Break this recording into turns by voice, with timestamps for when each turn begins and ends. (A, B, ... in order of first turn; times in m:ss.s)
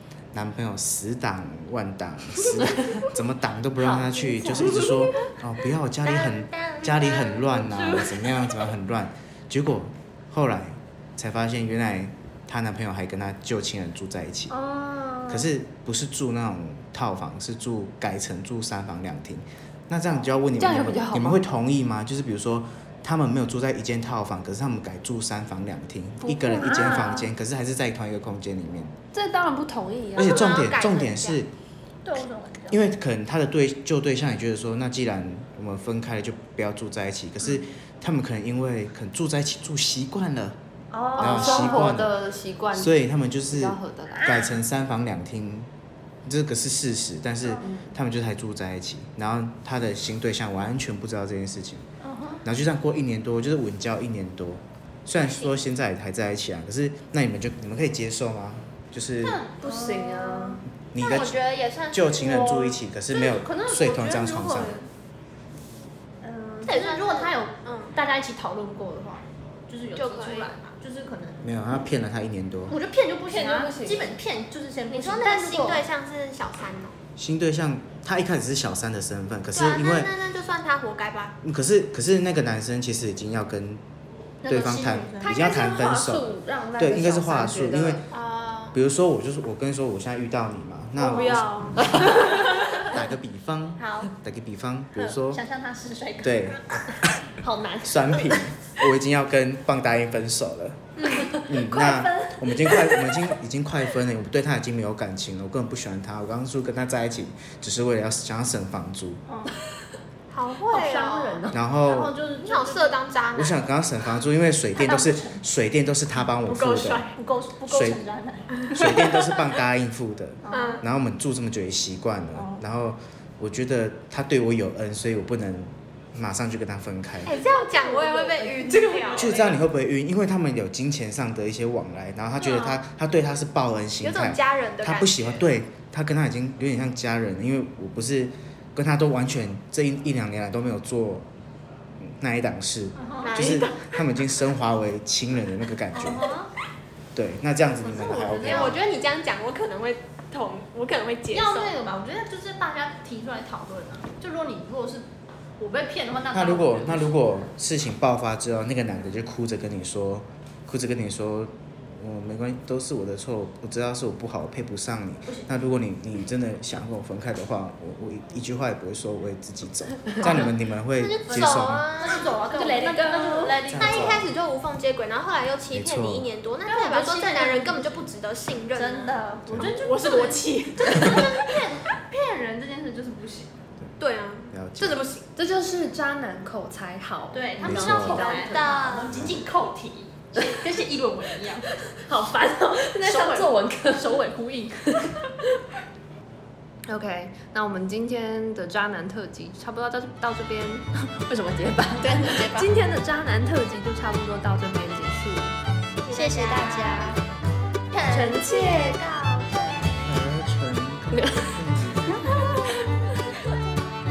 0:00.3-0:14.6 A
0:03.8-0:04.9 B
0:04.4-0:05.3 C
0:06.0-0:07.6 D
0:14.5-0:15.5 C
0:15.3-0:29.0 A
0:20.6-0:21.4 B
0:26.2-0:27.3 B
0:29.1-0:30.5 B
0:30.2-0:31.5 A
0:30.2-0:31.4 D
0:32.0-0:32.9 C
0:32.7-0:40.6 A
0:40.9-0:44.4 B
0:41.1-0:41.8 C
0:41.2-0:42.1 A
0:42.7-0:45.7 A
0:44.2-0:44.6 C
0:46.3-0:51.8 A
0:47.6-0:47.9 B
0:52.0-0:52.4 C
0:52.4-0:59.4 A
0:55.2-0:55.5 D
0:59.2-1:04.9 C
0:59.6-1:00.6 B
1:00.9-1:04.8 A
1:06.2-1:11.4 C
1:06.6-1:07.9 D
1:09.9-1:10.6 D
1:11.4-1:12.8 A
1:12.7-1:15.8 C
1:13.3-1:14.2 B
1:14.9-1:17.0 D
1:17.2-1:20.1 A
1:19.5-1:21.4 D
1:21.4-1:23.8 A
1:24.4-1:25.4 C
1:24.5-1:28.0 A
1:25.2-1:28.0 B
1:28.1-1:28.8 D
1:28.7-1:35.4 A
1:31.0-1:32.9 B
1:33.8-1:34.1 D
1:35.0-1:36.6 C
1:36.2-1:37.2 A
1:37.4-1:38.4 B
1:37.9-1:49.2 A
1:41.0-1:41.3 D
1:41.0-1:42.1 B
1:41.0-1:42.9 C
1:49.3-1:49.5 C
1:50.3-1:51.5 D
1:50.6-1:51.6 B
1:51.5-1:52.2 A
1:51.8-1:53.0 C
1:52.4-1:53.7 D
1:53.4-1:57.1 A
1:54.8-1:55.4 C
1:56.4-1:57.2 D
1:57.2-1:59.6 C
1:57.7-1:58.0 A
1:58.7-2:07.4 A
2:00.4-2:00.8 C
2:00.5-2:00.8 D
2:02.4-2:02.6 C
2:07.2-2:09.6 D
2:07.4-2:09.5 C
2:09.2-2:21.3 A
2:12.4-2:12.8 D
2:14.0-2:15.5 D
2:22.0-2:26.3 A
2:23.0-2:23.6 C
2:23.2-2:24.0 D
2:25.9-2:26.5 C
2:27.2-2:28.8 A
2:27.8-2:28.8 C
2:28.4-2:31.8 D
2:31.3-2:35.1 C
2:35.6-2:37.1 C
2:36.3-2:51.9 A
2:50.2-2:50.5 C
2:51.0-2:52.9 D
2:51.3-2:54.3 C
2:52.5-2:53.6 B
2:53.7-2:54.3 A
2:53.7-2:59.2 D
2:55.7-2:56.3 A
2:56.7-2:58.0 C
2:58.8-3:03.6 C
2:59.5-2:59.8 A
2:59.8-3:01.6 D
3:04.0-3:05.3 D
3:04.5-3:05.0 A
3:05.4-3:08.8 B
3:07.3-3:11.7 C
3:07.6-3:08.3 A
3:07.8-3:09.3 D
3:09.1-3:09.4 A
3:11.7-3:14.2 B
3:13.0-3:15.1 C
3:14.9-3:15.2 B
3:16.9-3:25.6 B
3:22.0-3:22.7 C
3:26.0-3:27.2 D
3:26.1-3:27.2 C
3:27.9-3:29.0 C
3:28.1-3:29.0 B
3:28.7-3:29.5 D
3:30.0-3:32.5 A
3:31.1-3:31.6 B
3:32.1-3:32.8 C